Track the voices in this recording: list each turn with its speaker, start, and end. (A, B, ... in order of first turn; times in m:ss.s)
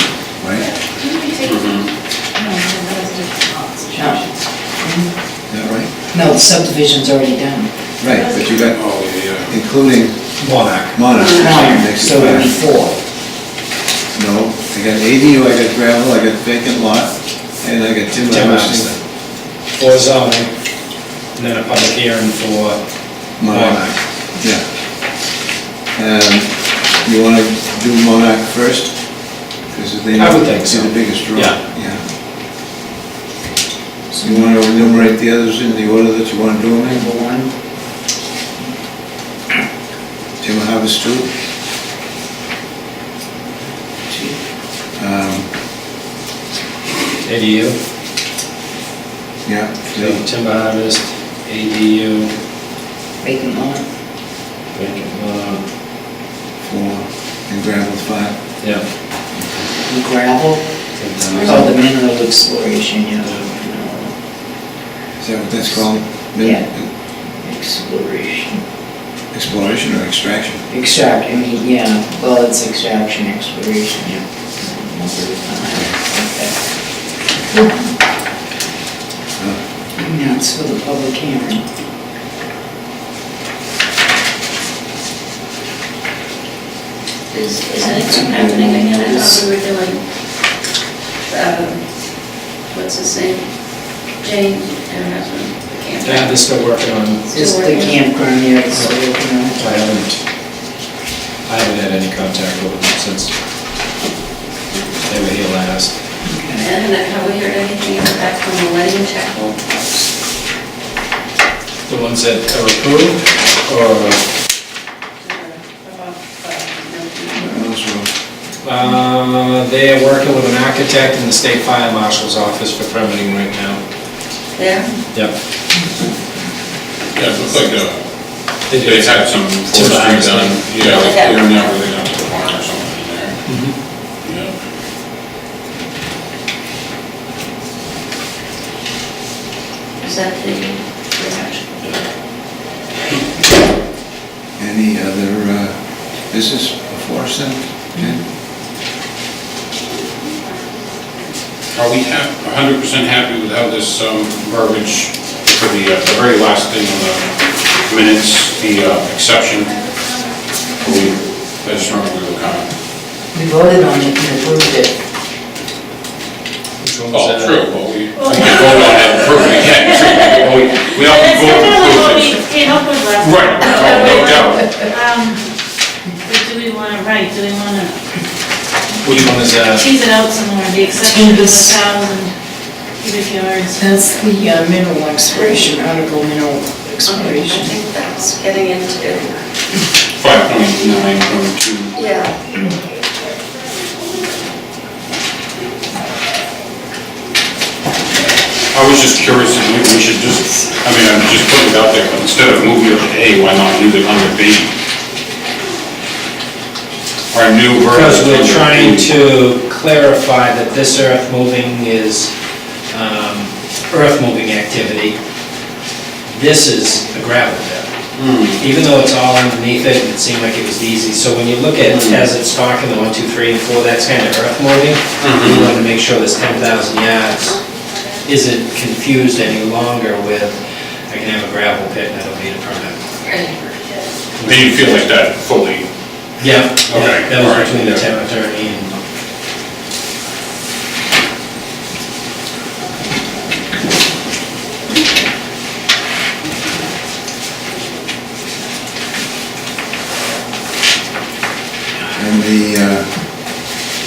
0:00.4-0:00.7 A
0:00.9-0:01.6 B
0:01.4-0:01.9 C
0:02.4-0:04.3 B
0:03.9-0:04.2 D
0:04.8-0:05.1 D
0:05.5-0:05.9 A
0:06.1-0:07.7 D
0:08.0-0:08.9 A
0:08.1-0:08.5 B
0:08.6-0:09.6 C
0:09.4-0:10.3 A
0:10.4-0:11.0 E
0:10.9-0:12.6 A
0:11.1-0:11.4 F
0:11.3-0:13.0 D
0:14.1-0:18.9 A
0:18.2-0:19.0 E
0:19.7-0:20.5 E
0:21.4-0:22.8 E
0:23.4-0:24.7 A
0:23.4-0:24.0 E
0:25.9-0:32.0 A
0:30.2-0:31.6 E
0:34.1-0:35.1 D
0:34.2-0:37.1 A
0:36.8-0:37.5 D
0:40.4-0:41.3 A
0:44.1-0:44.4 D
0:45.0-0:45.5 A
0:47.2-0:47.8 E
0:49.4-0:50.2 A
0:49.9-0:52.3 E
0:53.2-0:53.8 D
0:54.8-0:55.6 E
0:56.6-0:58.4 A
0:59.8-1:00.6 D
1:01.0-1:01.7 E
1:01.4-1:04.1 D
1:05.2-1:06.9 A
1:07.4-1:08.6 D
1:09.3-1:10.6 A
1:10.7-1:16.5 D
1:20.0-1:21.6 D
1:27.3-1:30.0 F
1:27.8-1:29.4 D
1:31.3-1:31.8 F
1:32.7-1:33.5 F
1:34.2-1:36.4 F
1:36.0-1:37.3 E
1:37.3-1:39.6 D
1:37.3-1:38.0 F
1:39.6-1:40.2 E
1:41.5-1:43.3 E
1:44.7-1:45.0 F
1:45.1-1:45.9 E
1:46.2-1:46.7 D
1:46.6-1:50.0 F
1:51.9-1:54.2 E
1:55.2-1:57.6 F
1:57.4-1:58.1 A
1:58.6-2:03.8 E
2:04.6-2:04.9 F
2:07.2-2:08.0 C
2:08.7-2:10.9 E
2:08.7-2:13.4 C
2:10.9-2:11.7 F
2:13.5-2:13.8 E
2:14.2-2:14.5 C
2:20.0-2:22.1 F
2:24.6-2:28.2 A
2:31.7-2:37.3 C
2:37.8-2:39.8 C
2:40.8-2:42.7 C
2:43.3-2:44.9 D
2:46.8-2:47.8 E
2:47.1-2:52.6 C
2:48.2-2:55.4 B
2:53.2-2:54.9 C
2:56.2-2:58.0 B
2:59.0-2:59.9 E
2:59.6-3:02.3 B
3:01.0-3:01.8 D
3:03.0-3:03.9 B
3:03.7-3:07.8 D
3:07.1-3:09.4 F
3:10.2-3:11.9 C
3:11.9-3:12.4 F
3:18.7-3:24.7 C
3:27.3-3:29.1 C
3:27.9-3:32.3 E
3:32.9-3:35.2 E
3:36.3-3:37.9 E
3:38.2-3:38.6 C
3:38.6-3:47.6 E
3:41.8-3:42.2 C
3:45.2-3:45.8 C
3:48.2-3:50.6 E
3:51.1-3:53.0 E
3:53.2-3:53.6 F
3:54.4-3:54.7 E
3:54.4-3:55.9 C
3:56.4-3:58.9 E
3:56.9-3:58.1 C
4:12.1-4:13.2 A